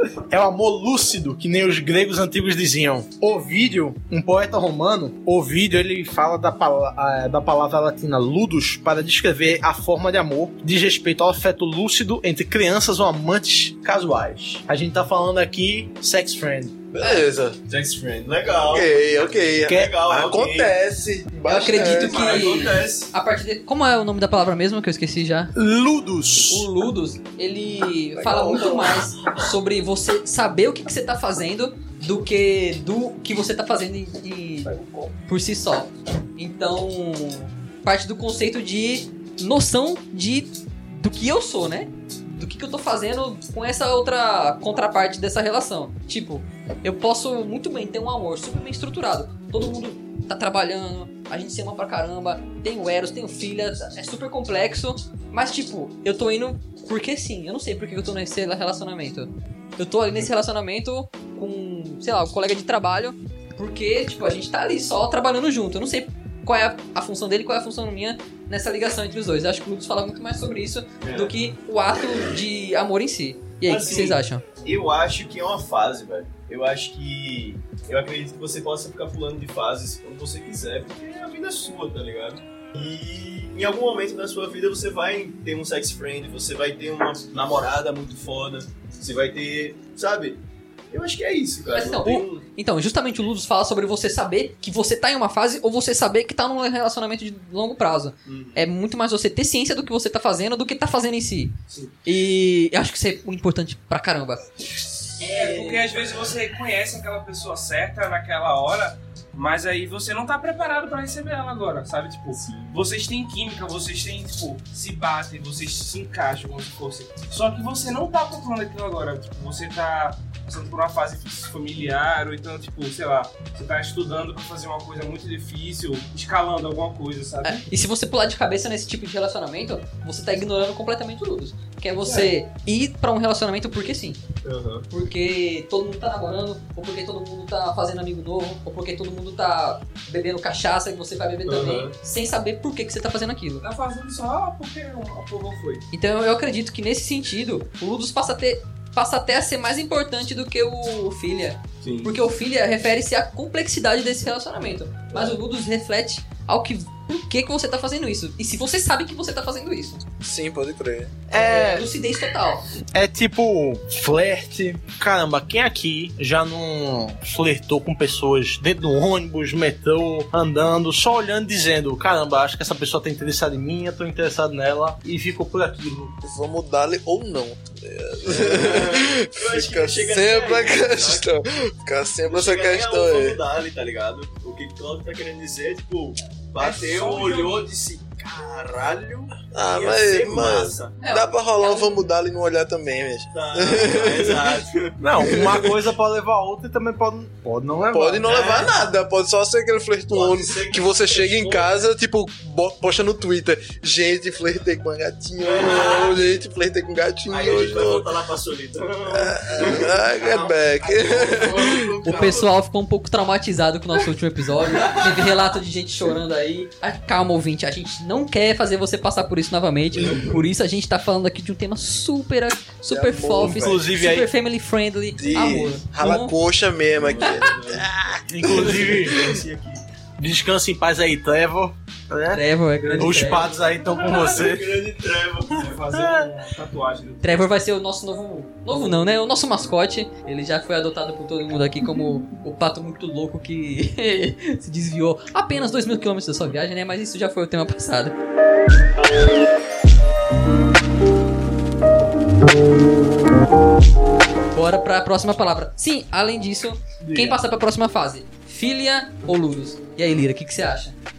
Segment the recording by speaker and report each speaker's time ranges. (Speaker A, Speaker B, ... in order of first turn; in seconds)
Speaker A: 0.3-16.8, 19.7-19.9, 25.5-26.7, 161.3-161.9, 162.9-176.1, 195.0-198.6, 223.4-224.3, 228.3-229.4, 230.2-232.4, 233.0-234.8, 235.9-236.3, 257.0-257.4
Speaker B: 13.9-14.6, 17.7-18.9, 19.7-20.7, 21.6-23.1, 71.0-71.3, 73.6-90.4, 90.9-92.4, 98.2-98.7, 112.4-112.7, 134.4-134.9, 141.4-141.9, 151.8-152.1, 178.2-181.3, 182.3-191.0, 193.3-195.3, 198.2-198.7, 200.1-201.7, 205.4-206.2, 207.3-212.5, 214.8-215.2, 219.9-220.4, 227.0-227.9, 228.5-229.8, 233.8-235.8
Speaker C: 16.9-17.6, 18.6-22.7, 28.1-29.1, 160.2-161.2, 176.2-183.4, 189.5-194.6, 195.3-195.8, 197.9-208.1, 209.1-212.0, 222.9-223.8, 225.1-228.9
Speaker D: 17.0-17.2, 21.4-25.5, 26.5-34.7, 35.2-74.4, 91.7-104.5, 105.2-105.9, 127.4-134.2, 134.9-143.6, 145.9-160.0, 161.3-162.6, 191.0-192.0, 212.0-226.3, 232.3-233.5, 237.2-248.1, 254.5-260.9
Speaker E: 34.6-35.1, 105.2-127.6, 132.0-132.3, 143.6-145.8, 186.6-187.7, 232.8-233.5, 235.6-237.5